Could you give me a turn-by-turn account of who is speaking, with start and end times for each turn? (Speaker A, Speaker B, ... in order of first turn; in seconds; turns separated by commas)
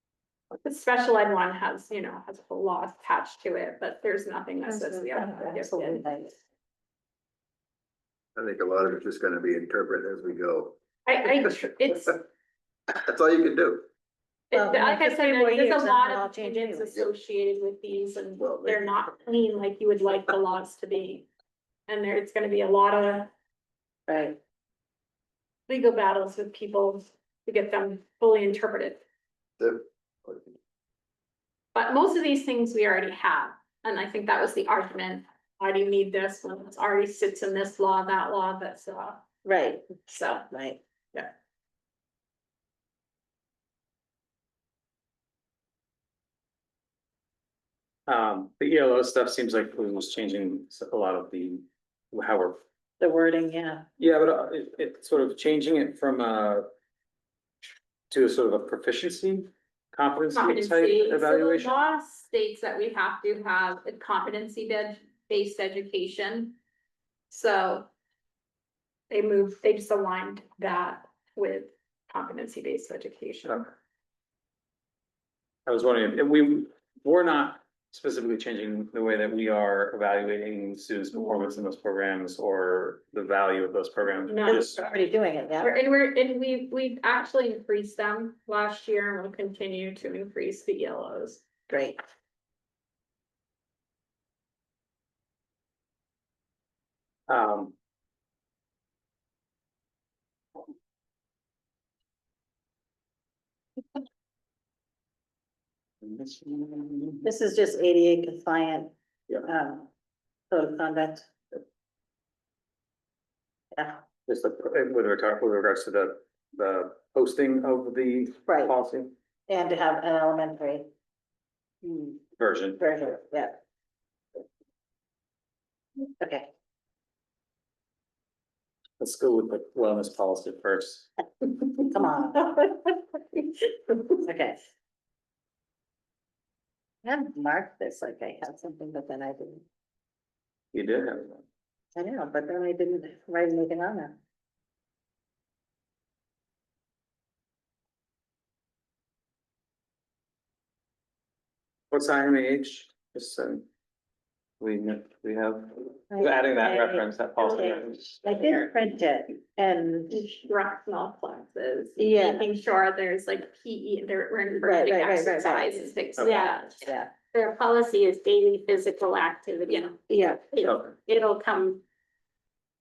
Speaker A: 0.6-6.0, Speaker B: 4.7-6.3, Speaker C: 8.4-10.8, Speaker A: 11.1-12.2, Speaker C: 12.9-13.8, Speaker A: 14.5-21.3, Speaker B: 14.5-17.0, Speaker C: 18.4-18.9, Speaker A: 21.9-23.3, Speaker B: 24.1-24.4, Speaker A: 25.7-29.0, Speaker C: 29.6-30.5, Speaker A: 31.8-39.2, Speaker B: 39.5-40.8, Speaker A: 40.1-40.5, Speaker D: 48.1-52.6, Speaker B: 53.0-53.9, Speaker D: 54.0-56.7, Speaker D: 58.1-61.7, Speaker A: 60.3-66.5, Speaker A: 67.3-67.9, Speaker A: 69.1-73.7, Speaker D: 75.7-84.8, Speaker A: 84.3-84.6, Speaker B: 84.5-85.8, Speaker A: 85.6-91.4, Speaker B: 91.7-92.0, Speaker D: 97.3-97.7, Speaker D: 106.0-107.2, Speaker B: 107.2-109.9, Speaker B: 110.5-111.3, Speaker B: 113.8-114.0, Speaker D: 114.3-119.1, Speaker B: 118.5-118.7, Speaker B: 119.5-120.9, Speaker B: 121.8-122.2, Speaker D: 122.4-122.8, Speaker B: 122.8-123.6, Speaker B: 126.2-126.5, Speaker D: 129.0-131.1, Speaker B: 131.8-133.0, Speaker B: 133.9-134.6, Speaker B: 137.0-139.7, Speaker D: 140.7-141.4, Speaker B: 142.0-144.2, Speaker D: 151.9-153.7, Speaker D: 154.6-158.2, Speaker B: 156.1-160.3, Speaker A: 160.1-166.8, Speaker B: 162.0-162.5, Speaker B: 164.6-165.9, Speaker D: 166.2-166.5, Speaker E: 166.2-166.8, Speaker B: 166.8-167.1, Speaker E: 167.3-169.9, Speaker B: 170.1-170.5, Speaker E: 170.5-171.8, Speaker D: 170.7-171.0